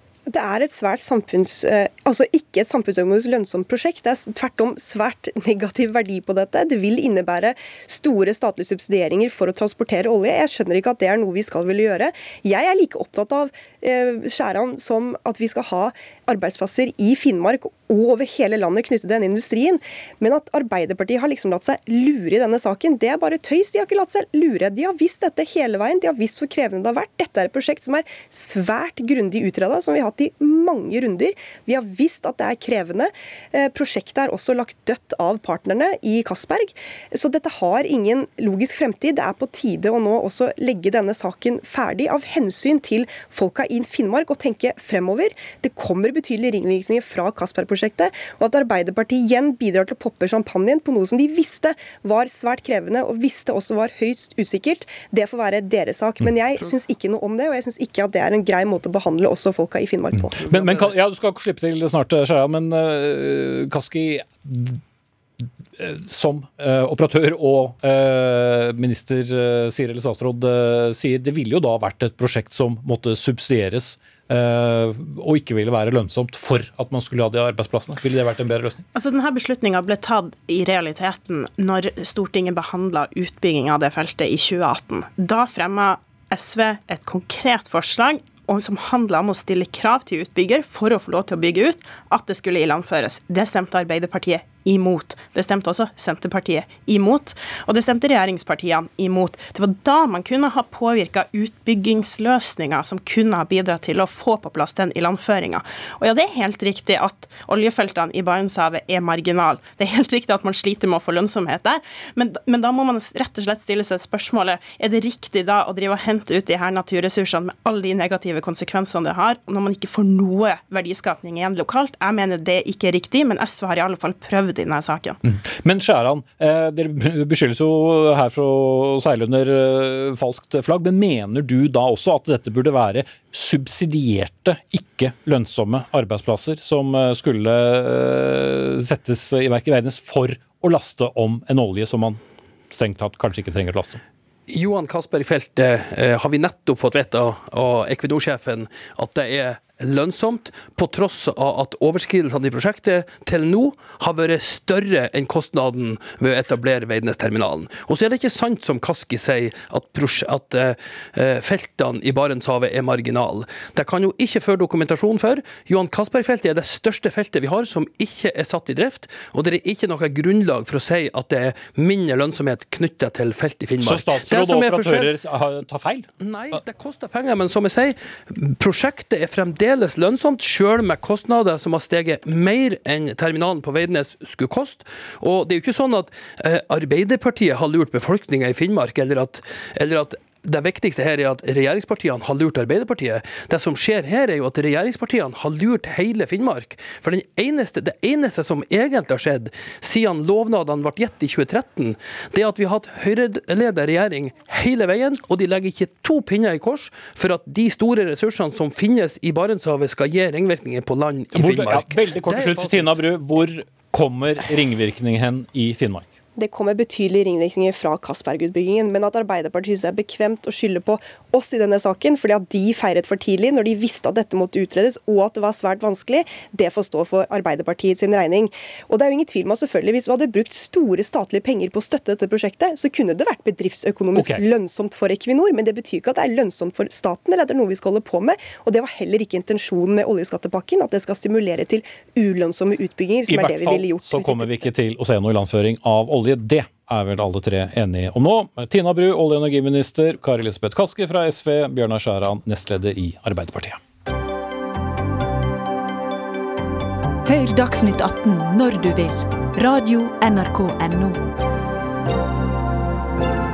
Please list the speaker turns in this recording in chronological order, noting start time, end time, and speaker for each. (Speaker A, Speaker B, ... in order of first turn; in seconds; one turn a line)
Speaker A: 0.3-60.4
Speaker B: 60.1-64.8
Speaker B: 65.8-78.8
Speaker C: 78.9-125.2
Speaker B: 125.2-142.2
Speaker B: 142.7-144.0
Speaker D: 144.5-175.1
Speaker B: 173.8-176.1
Speaker D: 176.2-212.8
Speaker B: 211.3-216.1
Speaker A: 216.4-244.7
Speaker B: 234.1-234.4
Speaker B: 243.3-253.8
Speaker E: 257.3-261.2